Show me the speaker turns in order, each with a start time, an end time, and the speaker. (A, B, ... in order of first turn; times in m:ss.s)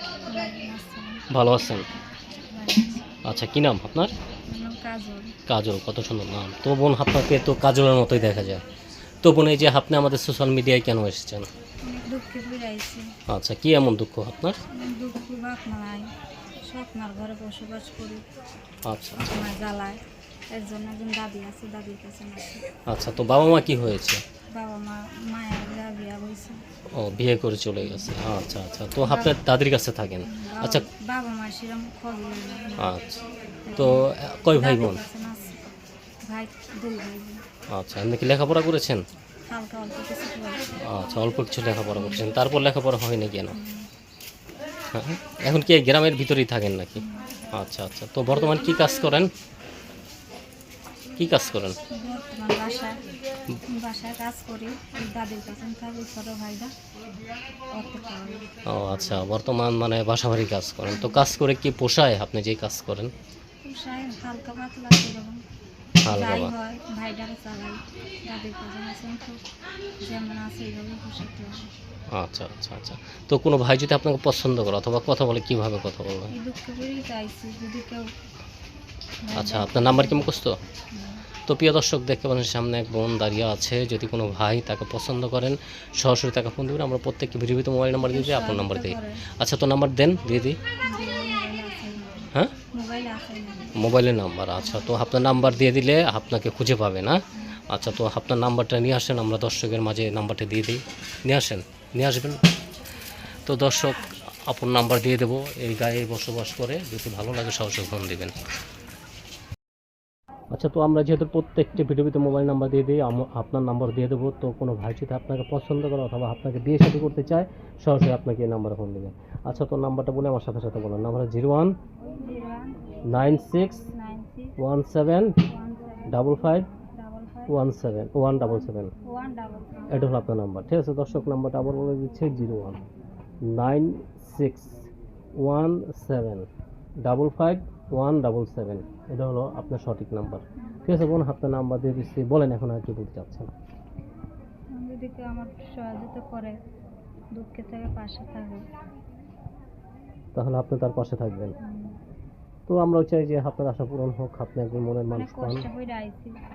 0:00.3-0:01.2 A
0:01.3-0:01.8 B
0:02.5-0:03.0 A
0:03.2-0:04.1 B
0:04.5-0:05.4 A
0:05.5-0:08.6 B
0:09.2-0:11.5 B
0:11.8-0:13.1 A
0:13.3-0:14.6 B
0:14.7-0:16.1 A
0:16.6-0:18.2 A
0:18.9-0:19.3 B
0:19.2-0:22.6 A
0:22.9-0:24.2 B
0:24.5-0:26.6 A
0:27.0-0:30.8 B
0:27.8-0:28.1 A
0:29.0-0:29.4 A
0:30.2-0:33.0 A
0:32.8-0:35.0 B
0:33.7-0:35.6 A
0:36.2-0:37.4 A
0:37.7-0:39.0 B
0:39.5-0:40.8 A
0:40.8-0:43.6 B
0:41.9-0:42.3 A
0:43.5-0:43.9 A
0:44.9-0:49.3 B
0:47.0-0:47.3 A
0:51.2-0:51.8 B
0:51.9-0:53.0 A
0:53.7-0:56.7 A
0:57.7-0:58.5 A
0:58.7-1:03.1 B
1:00.9-1:01.2 A
1:03.6-1:05.4 A
1:06.0-1:06.5 B
1:06.1-1:09.4 A
1:10.0-1:11.7 A
1:12.1-1:16.3 B
1:16.3-1:18.1 A
1:19.2-1:20.3 A
1:19.3-1:20.6 B
1:20.9-1:21.2 A
1:21.5-1:30.6 B
1:28.0-1:29.2 A
1:30.8-1:33.8 A
1:33.8-1:37.2 B
1:37.7-1:42.4 B
1:43.4-1:48.3 B
1:50.5-2:01.7 B
2:02.0-2:02.8 A
2:03.1-2:03.8 B
2:03.8-2:04.6 A
2:04.6-2:05.4 B
2:05.4-2:07.6 A
2:06.1-2:06.7 B
2:07.5-2:08.9 B
2:09.0-2:10.1 A
2:09.9-2:12.8 B
2:13.4-2:16.5 B
2:17.0-2:23.5 B
2:24.7-2:26.6 A
2:27.3-2:28.7 A
2:30.3-2:31.5 B
2:31.6-2:32.0 A
2:32.7-2:35.7 B
2:35.1-2:36.4 A